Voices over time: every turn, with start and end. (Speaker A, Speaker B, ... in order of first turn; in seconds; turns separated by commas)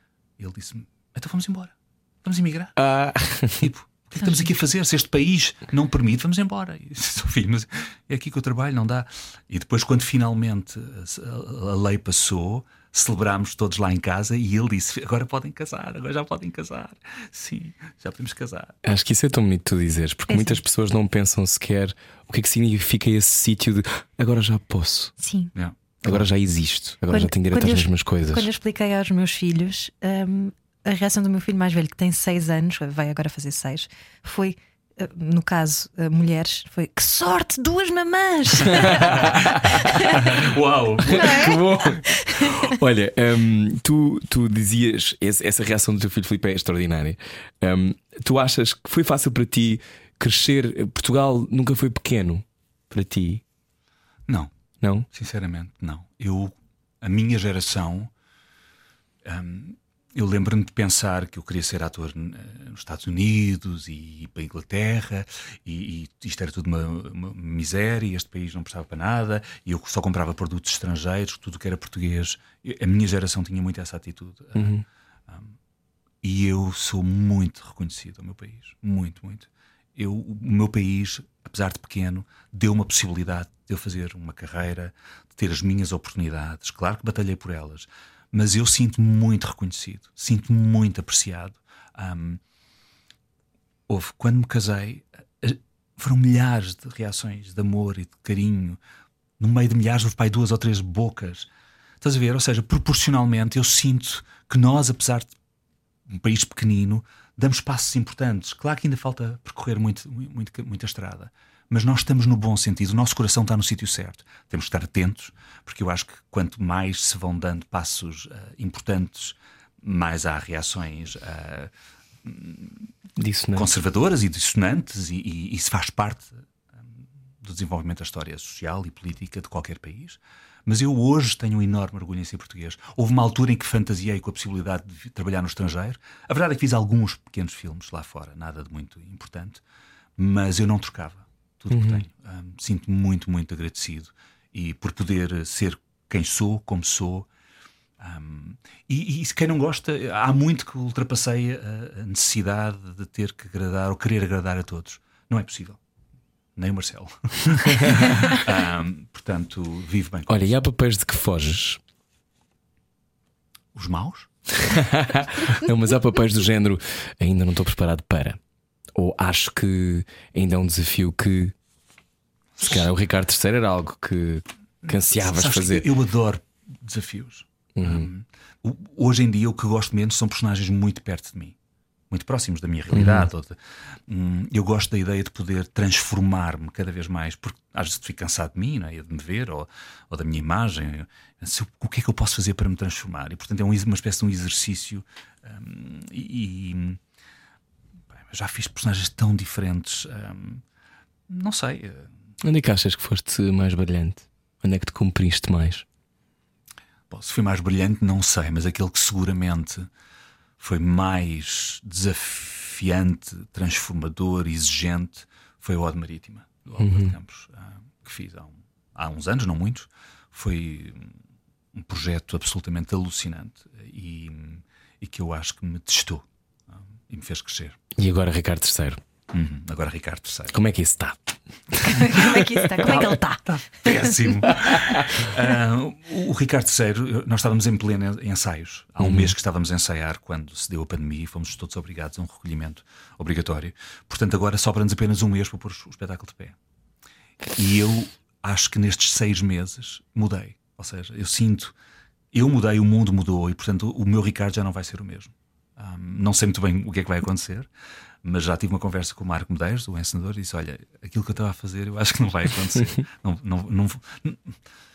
Speaker A: 0.4-2.8, Speaker B: 2.8-3.7, Speaker A: 3.5-18.8, Speaker B: 18.8-25.1, Speaker C: 20.3-20.6, Speaker C: 25.2-25.5, Speaker A: 25.6-26.3, Speaker B: 26.0-28.5, Speaker C: 27.1-40.3, Speaker B: 38.9-40.3, Speaker A: 39.1-39.5, Speaker A: 40.1-41.6, Speaker B: 41.1-53.4, Speaker C: 41.1-42.6, Speaker B: 54.8-55.1, Speaker A: 55.1-58.1, Speaker A: 59.2-75.6, Speaker B: 74.6-74.8, Speaker A: 76.2-92.4, Speaker A: 93.9-98.8, Speaker A: 99.4-101.5, Speaker A: 102.0-105.3, Speaker A: 106.1-121.7, Speaker A: 122.2-122.9, Speaker B: 123.2-123.7, Speaker A: 123.5-139.6, Speaker A: 140.2-147.3, Speaker B: 141.7-142.0, Speaker A: 148.0-155.8, Speaker A: 156.6-160.6, Speaker B: 157.8-158.1, Speaker B: 160.3-161.8, Speaker A: 163.7-164.3, Speaker B: 164.6-168.4, Speaker B: 168.9-171.5, Speaker A: 172.6-172.9, Speaker B: 172.6-175.9, Speaker A: 174.8-181.6, Speaker B: 177.8-178.1, Speaker A: 182.1-197.0, Speaker B: 182.9-183.3, Speaker A: 198.1-200.6, Speaker A: 201.3-202.1, Speaker B: 202.4-205.8, Speaker A: 207.1-209.9, Speaker A: 210.6-221.2, Speaker B: 216.8-217.1, Speaker A: 221.7-227.8, Speaker B: 228.0-229.0, Speaker A: 229.3-230.6, Speaker B: 230.5-231.2, Speaker B: 231.7-233.0, Speaker C: 231.8-233.5, Speaker A: 232.8-246.6, Speaker B: 234.5-235.2, Speaker B: 239.0-239.3, Speaker A: 247.5-251.8, Speaker A: 252.3-257.7, Speaker A: 258.2-264.5